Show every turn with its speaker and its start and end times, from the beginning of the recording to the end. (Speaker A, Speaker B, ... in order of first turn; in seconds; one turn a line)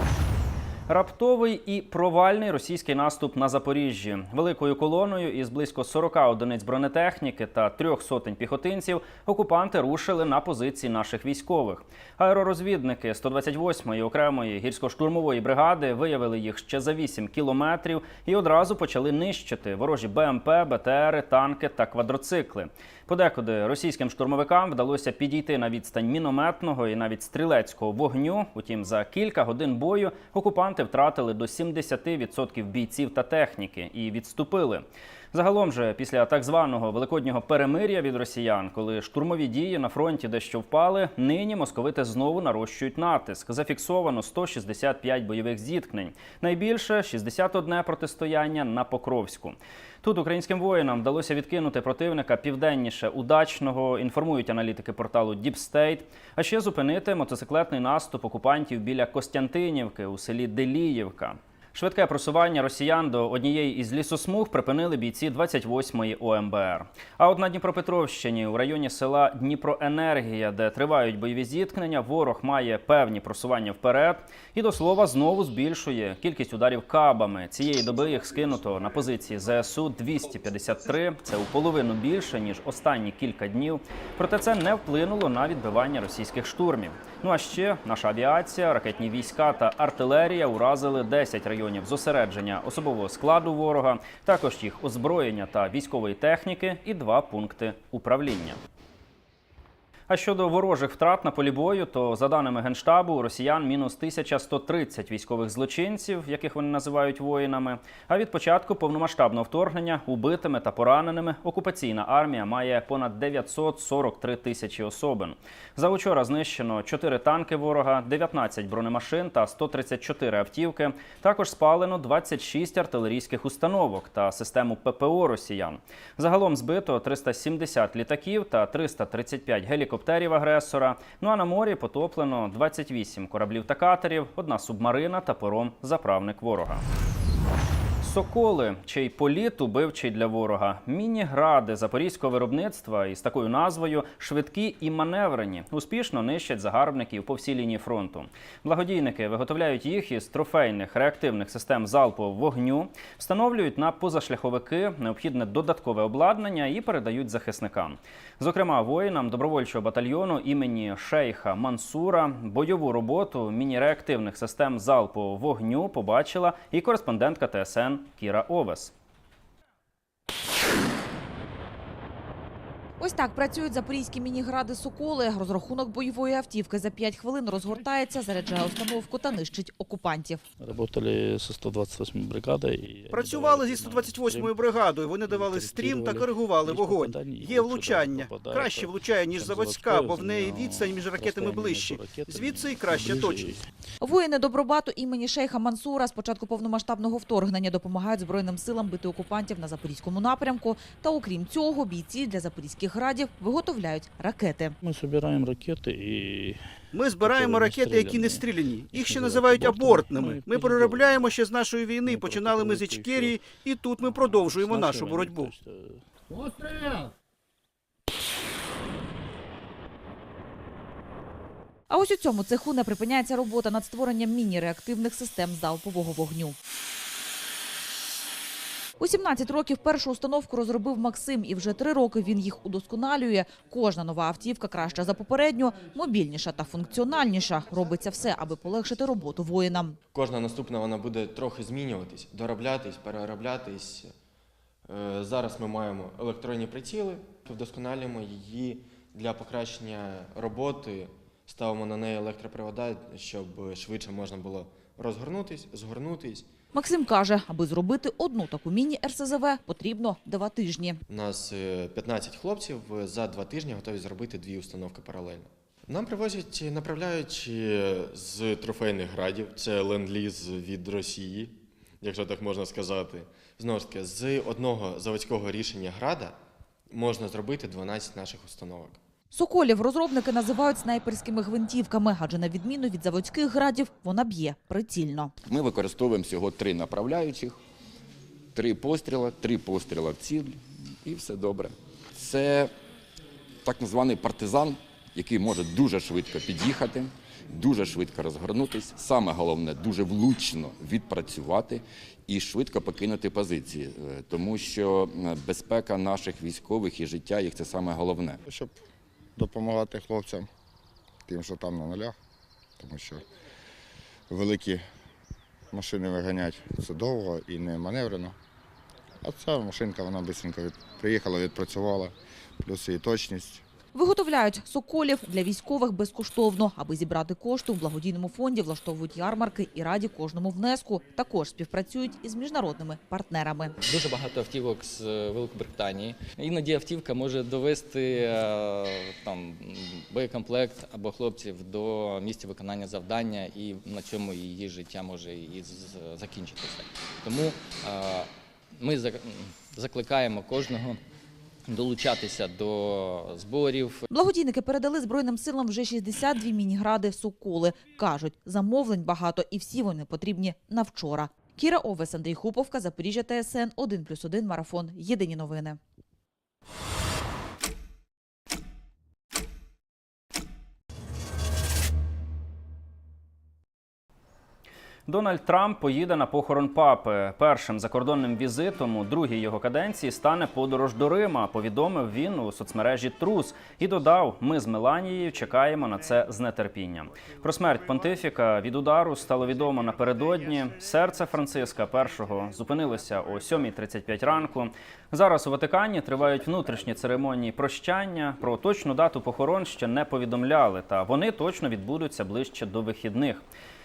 Speaker A: 0.9-98.6
Speaker A: 100.1-136.8
Speaker A: 138.0-168.9
Speaker B: 173.0-180.4
Speaker C: 180.6-193.7
Speaker D: 183.1-193.6
Speaker B: 194.0-204.8
Speaker C: 204.8-211.3
Speaker D: 206.9-215.5
Speaker C: 212.0-216.0
Speaker B: 221.9-226.6
Speaker B: 229.0-240.0
Speaker E: 240.1-244.1
Speaker E: 244.9-256.5
Speaker B: 256.7-261.0
Speaker E: 261.1-276.4
Speaker E: 276.9-279.0
Speaker B: 279.3-285.3
Speaker F: 285.5-287.6
Speaker F: 288.6-292.7
Speaker F: 293.6-308.4
Speaker G: 308.5-308.7
Speaker G: 309.4-310.5
Speaker G: 311.3-312.2
Speaker G: 312.8-313.2
Speaker G: 314.3-314.8
Speaker G: 315.7-318.4
Speaker G: 319.2-323.6
Speaker B: 323.9-333.7
Speaker H: 333.8-351.0
Speaker H: 351.7-354.1
Speaker B: 354.1-365.8
Speaker A: 375.1-403.5